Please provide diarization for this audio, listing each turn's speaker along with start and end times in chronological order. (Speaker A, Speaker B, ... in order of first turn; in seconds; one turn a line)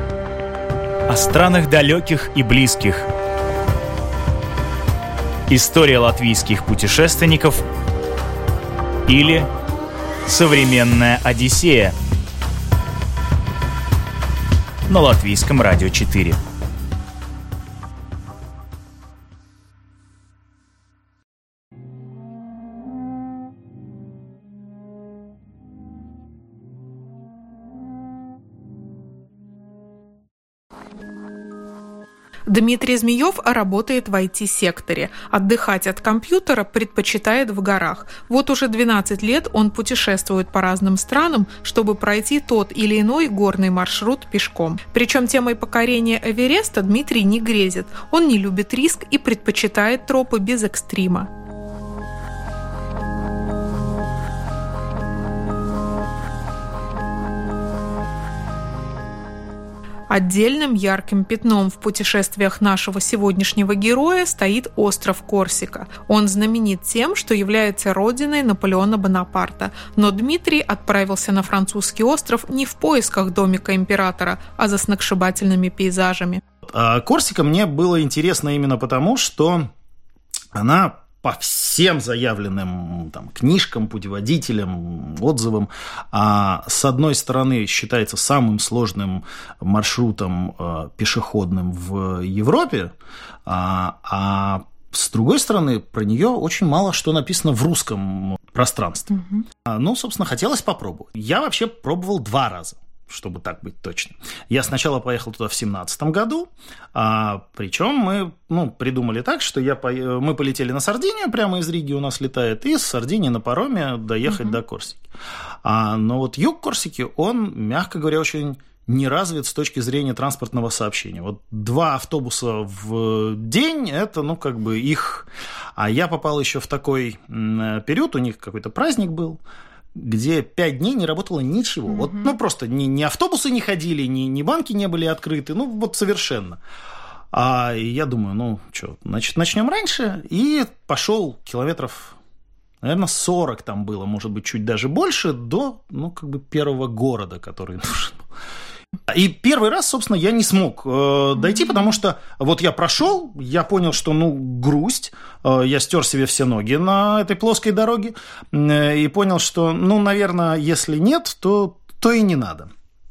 Speaker A: 1.1-3.1
Speaker A: 5.5-7.6
Speaker A: 9.1-9.5
Speaker A: 10.3-11.9
Speaker A: 14.9-16.4
Speaker B: 32.5-51.3
Speaker B: 60.1-76.4
Speaker C: 76.7-79.7
Speaker C: 80.5-92.9
Speaker C: 93.5-99.1
Speaker B: 99.1-99.4
Speaker C: 99.6-115.0
Speaker B: 114.3-114.6
Speaker C: 115.6-129.4
Speaker C: 129.9-136.6
Speaker B: 131.9-132.3
Speaker C: 137.3-142.2
Speaker C: 142.8-148.2
Speaker C: 149.1-162.7